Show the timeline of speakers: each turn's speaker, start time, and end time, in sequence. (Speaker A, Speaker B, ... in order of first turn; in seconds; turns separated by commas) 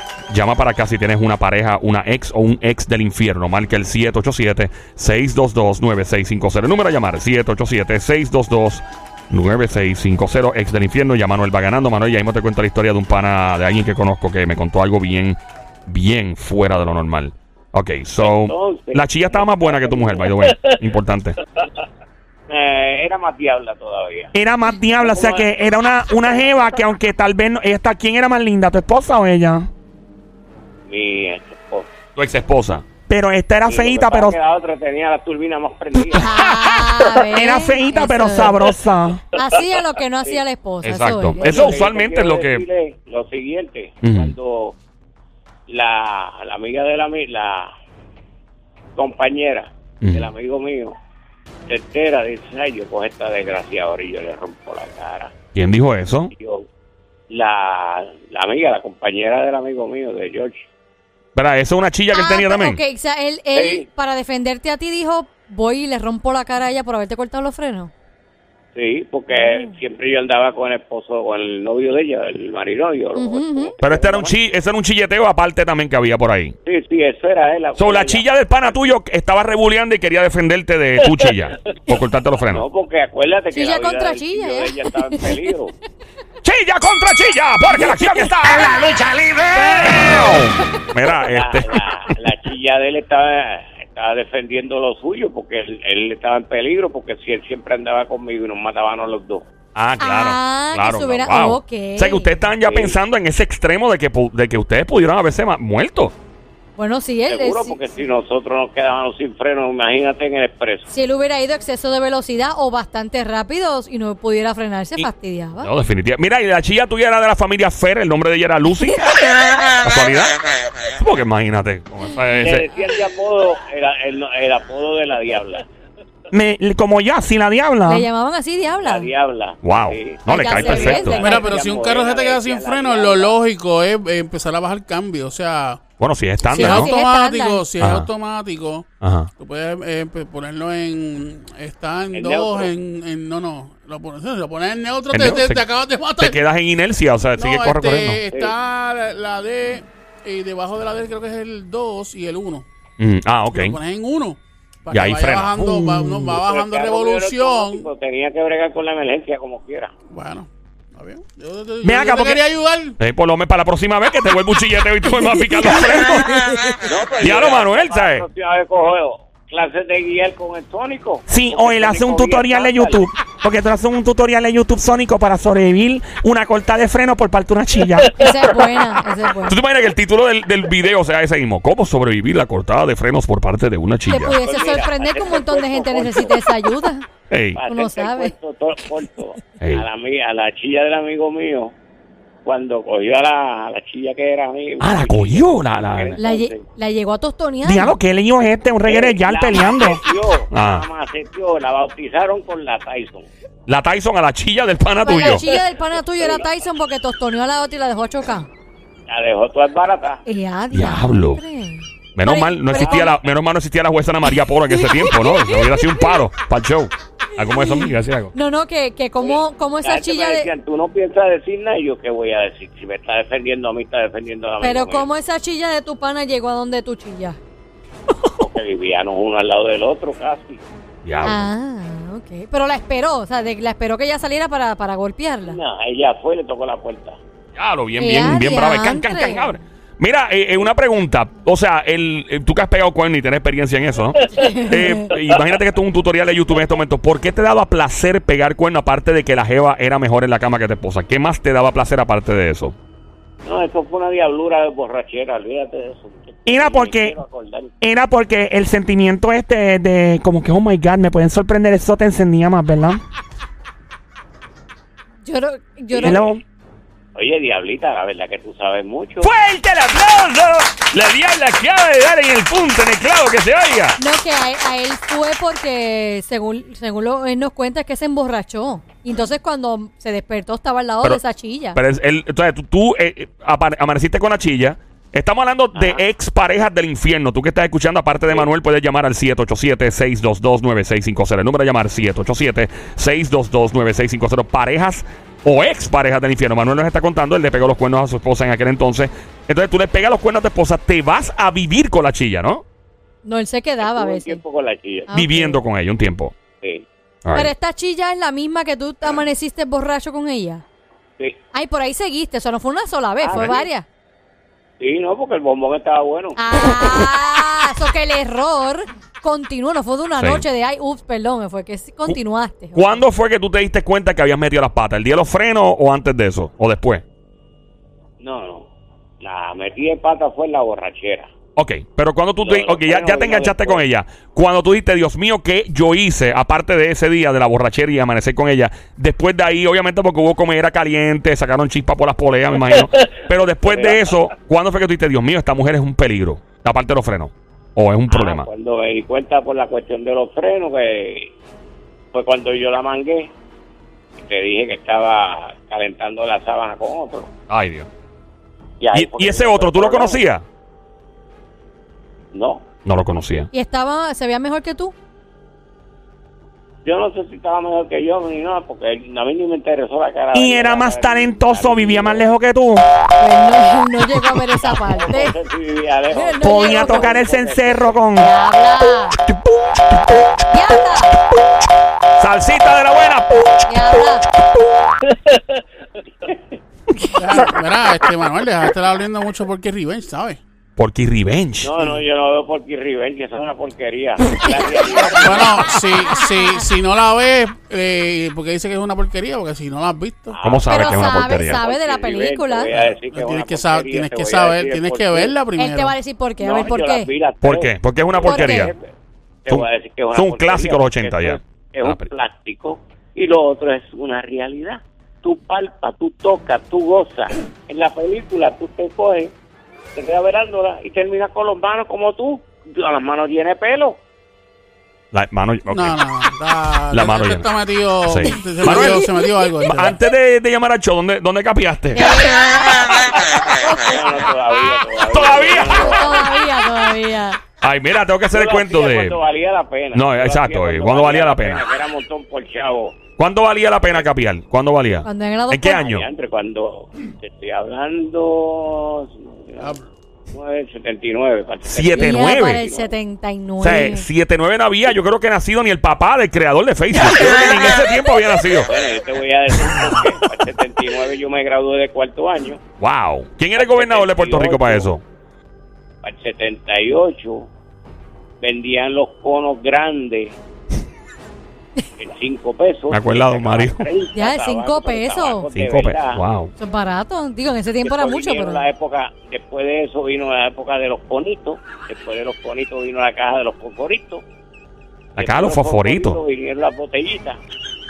Speaker A: 0.3-21.4, Speaker B: 18.2-20.6, Speaker B: 22.5-24.3, Speaker C: 24.3-29.7, Speaker B: 25.0-25.5, Speaker B: 26.2-26.5, Speaker B: 30.9-31.9, Speaker A: 32.1-32.8, Speaker C: 33.1-34.4, Speaker B: 33.6-36.4, Speaker D: 36.1-38.7, Speaker C: 37.3-39.2, Speaker D: 39.3-41.8, Speaker A: 40.8-42.6, Speaker B: 41.4-44.8, Speaker A: 44.0-44.3, Speaker B: 45.7-47.7, Speaker B: 49.0-51.0, Speaker A: 50.0-50.3, Speaker B: 51.7-55.3, Speaker A: 55.5-56.3, Speaker B: 56.3-56.6, Speaker B: 57.3-60.7, Speaker A: 61.3-62.8, Speaker D: 62.1-67.9, Speaker B: 63.5-63.9, Speaker B: 68.7-74.3, Speaker D: 69.3-69.8, Speaker D: 73.1-73.7, Speaker A: 73.8-76.5, Speaker B: 76.6-78.8, Speaker A: 77.8-82.6, Speaker B: 82.5-85.7, Speaker D: 83.5-85.4, Speaker A: 86.4-91.8, Speaker B: 91.2-99.5, Speaker A: 99.7-106.1, Speaker D: 100.0-102.3, Speaker B: 102.6-103.0, Speaker D: 106.8-107.8, Speaker B: 107.3-110.9, Speaker D: 110.9-115.7, Speaker A: 115.6-119.2, Speaker A: 119.8-120.4, Speaker A: 120.9-122.7, Speaker B: 122.4-125.7, Speaker C: 126.3-128.1, Speaker D: 127.8-129.1, Speaker B: 128.8-133.3, Speaker A: 129.6-131.2, Speaker D: 130.3-131.5, Speaker E: 131.1-135.8, Speaker A: 136.0-136.9, Speaker D: 136.5-137.6, Speaker E: 136.5-146.4, Speaker A: 137.8-138.1, Speaker A: 139.0-139.3, Speaker B: 142.1-142.7, Speaker A: 145.1-145.6, Speaker A: 146.2-148.2, Speaker E: 147.3-152.6, Speaker A: 153.0-153.8, Speaker E: 153.5-157.9, Speaker A: 154.9-156.3, Speaker B: 156.3-159.9, Speaker E: 160.1-163.0, Speaker C: 161.8-162.4, Speaker A: 163.0-166.4, Speaker D: 166.3-166.7, Speaker B: 166.8-173.0, Speaker A: 167.2-168.2, Speaker C: 171.3-178.3, Speaker D: 178.1-179.6, Speaker A: 179.4-184.3, Speaker D: 184.1-187.1, Speaker B: 184.4-186.5, Speaker A: 187.3-187.6, Speaker B: 187.5-191.7, Speaker D: 187.7-188.3, Speaker A: 189.6-189.8, Speaker B: 192.4-196.6, Speaker A: 194.8-196.2, Speaker D: 196.2-197.9, Speaker C: 197.6-200.0, Speaker B: 198.9-203.3, Speaker A: 200.5-200.8, Speaker A: 203.7-205.4, Speaker D: 205.0-208.5, Speaker B: 205.2-206.5, Speaker B: 209.1-210.2, Speaker D: 210.2-213.2, Speaker A: 210.7-211.4, Speaker A: 212.2-218.3, Speaker B: 212.8-213.1, Speaker D: 214.7-216.2, Speaker D: 217.3-220.5, Speaker B: 219.2-225.1, Speaker D: 224.6-227.4, Speaker B: 228.4-230.6, Speaker A: 231.0-231.5, Speaker D: 231.2-235.6, Speaker B: 235.4-237.2, Speaker A: 237.5-252.7, Speaker D: 238.0-239.6, Speaker D: 244.2-245.1, Speaker B: 253.4-257.7, Speaker C: 256.5-257.2, Speaker C: 257.8-263.0, Speaker D: 265.2-266.3, Speaker C: 265.9-266.4, Speaker B: 267.1-269.3, Speaker A: 269.2-274.0, Speaker D: 274.0-281.8, Speaker A: 281.7-302.6, Speaker B: 285.7-286.0, Speaker D: 303.2-304.4, Speaker B: 303.8-305.1, Speaker D: 305.1-305.6, Speaker A: 305.1-306.3, Speaker A: 307.2-307.5, Speaker D: 307.3-310.6, Speaker D: 311.5-313.8, Speaker B: 313.2-313.6, Speaker B: 314.8-316.4, Speaker D: 316.4-323.0, Speaker A: 320.2-320.4, Speaker A: 322.7-327.0, Speaker B: 328.2-328.7, Speaker B: 329.2-331.3, Speaker A: 331.6-348.5, Speaker B: 332.4-333.8, Speaker B: 343.6-344.1, Speaker B: 348.1-351.3, Speaker B: 352.1-353.3, Speaker B: 354.2-357.3, Speaker A: 357.5-357.9, Speaker B: 358.8-360.2, Speaker A: 358.9-360.4, Speaker B: 362.3-362.6, Speaker A: 362.8-363.5, Speaker D: 363.5-364.9, Speaker B: 366.8-372.2, Speaker C: 370.3-372.8, Speaker D: 373.2-375.4, Speaker B: 374.7-377.9, Speaker D: 376.1-377.2, Speaker C: 376.4-378.3, Speaker D: 378.1-379.2, Speaker D: 380.5-381.1, Speaker A: 382.2-383.7, Speaker D: 383.6-384.2, Speaker B: 386.2-386.5, Speaker E: 387.1-390.4, Speaker A: 390.8-392.0, Speaker B: 391.6-395.8, Speaker E: 395.2-400.4, Speaker D: 396.1-396.6, Speaker B: 400.3-405.3, Speaker A: 400.4-401.6, Speaker D: 400.7-402.7, Speaker E: 402.8-405.9, Speaker D: 405.6-407.1, Speaker B: 406.4-408.8, Speaker A: 407.4-408.7, Speaker D: 408.2-408.7, Speaker B: 409.4-419.3, Speaker A: 409.5-412.1, Speaker B: 419.9-424.0, Speaker A: 425.1-426.0, Speaker E: 425.7-430.0, Speaker A: 426.9-427.5, Speaker A: 428.0-429.1, Speaker D: 428.3-429.3, Speaker A: 429.6-432.1, Speaker D: 431.9-433.0, Speaker A: 432.9-433.4, Speaker B: 433.6-436.3, Speaker A: 435.0-436.1, Speaker D: 435.8-437.4, Speaker A: 437.6-439.2, Speaker B: 438.3-443.0, Speaker A: 439.9-441.6, Speaker A: 443.2-446.0, Speaker D: 445.0-445.8, Speaker B: 445.7-449.7, Speaker E: 449.6-449.8, Speaker B: 450.3-452.9, Speaker A: 451.6-452.6, Speaker D: 451.9-454.1, Speaker A: 453.6-458.7, Speaker B: 458.6-462.6, Speaker A: 462.8-465.0, Speaker B: 463.6-464.9, Speaker B: 466.0-467.5, Speaker B: 468.4-470.4, Speaker B: 472.0-476.2, Speaker A: 472.9-473.9, Speaker D: 474.1-475.5, Speaker A: 475.5-476.5, Speaker D: 476.6-478.6, Speaker B: 477.8-484.2, Speaker A: 485.1-486.2, Speaker B: 485.2-487.4